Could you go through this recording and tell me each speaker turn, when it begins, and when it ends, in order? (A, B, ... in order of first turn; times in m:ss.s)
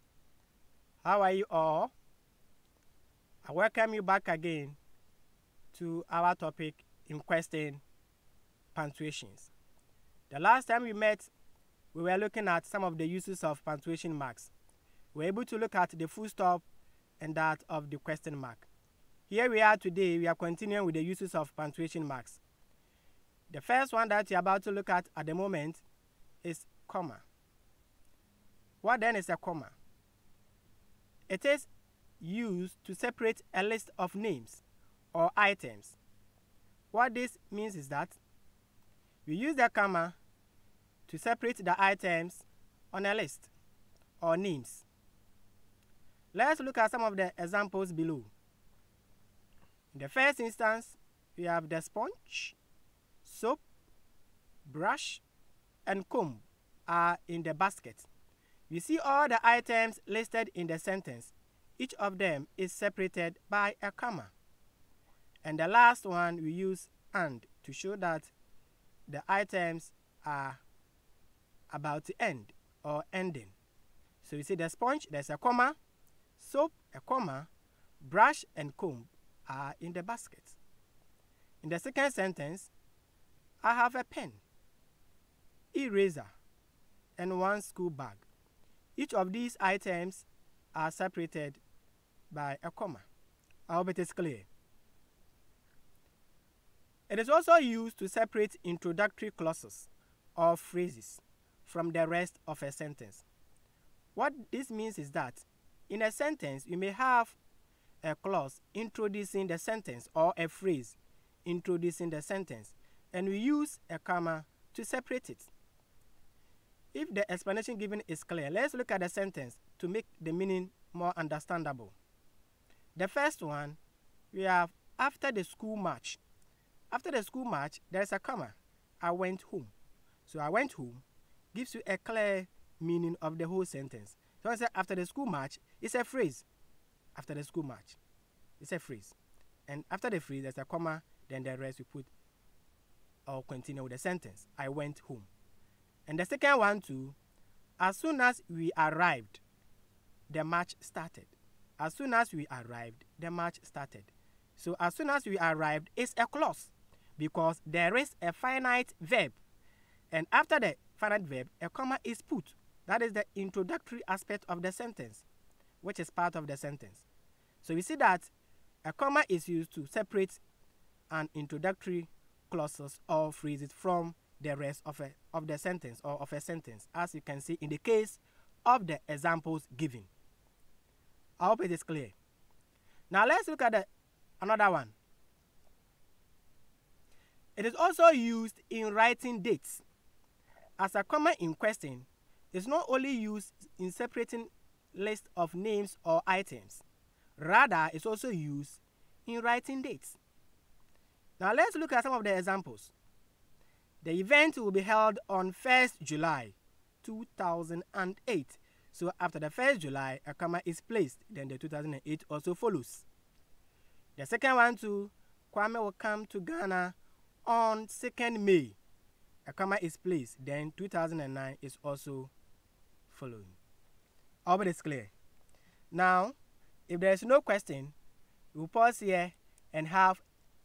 0:01.0-0:01.9 A
0:03.4-0:04.8 A
0:05.7-0:07.8 A
0:08.7-0:09.5 A
0:10.3-0:11.3 A
0:11.9-0:14.5 A
0:15.1-0:16.6 A
0:17.2-0:18.7 A
0:19.3-0:22.4 A
0:23.5-0:25.8 A
0:26.4-0:27.2 A
0:28.8-0:29.8 A
0:31.3-0:31.7 A
0:32.2-0:34.6 A
0:35.1-0:36.0 A
0:36.9-0:38.2 A
0:39.3-0:40.2 A
0:41.1-0:43.5 A
0:44.2-0:44.8 A
0:46.3-0:48.3 A
0:49.9-0:52.6 A
0:53.2-0:53.6 A
0:54.6-0:55.2 A
0:55.9-0:58.1 A
0:58.7-1:04.3 A
1:05.4-1:08.3 A
1:09.1-1:10.6 A
1:11.7-1:13.5 A
1:14.2-1:15.8 A
1:16.4-1:17.5 A
1:18.0-1:20.6 A
1:21.6-1:22.7 A
1:23.6-1:24.4 A
1:25.7-1:26.3 A
1:27.2-1:28.3 A
1:29.0-1:31.6 A
1:32.3-1:33.0 A
1:33.7-1:34.5 A
1:37.1-1:43.2 A
1:44.2-1:47.4 A
1:48.0-1:55.5 A
1:56.9-2:02.0 A
2:03.0-2:03.8 A
2:04.3-2:06.2 A
2:06.9-2:09.7 A
2:10.3-2:16.4 A
2:17.2-2:18.0 A
2:18.6-2:19.2 A
2:19.7-2:22.1 A
2:23.3-2:25.3 A
2:26.1-2:27.2 A
2:27.8-2:29.4 A
2:30.3-2:39.4 A
2:40.1-2:45.2 A
2:45.8-2:47.1 A
2:47.6-2:48.3 A
2:48.8-2:50.4 A
2:51.1-3:00.1 A
3:01.4-3:02.1 A
3:03.1-3:03.9 A
3:04.4-3:05.0 A
3:07.6-3:09.8 A
3:10.8-3:16.8 A
3:17.4-3:20.2 A
3:21.4-3:22.9 A
3:24.0-3:33.1 A
3:34.2-3:37.0 A
3:37.5-3:38.8 A
3:39.4-3:42.3 A
3:43.1-3:43.6 A
3:44.5-3:45.1 A
3:45.9-3:46.4 A
3:46.9-3:47.9 A
3:48.5-3:50.2 A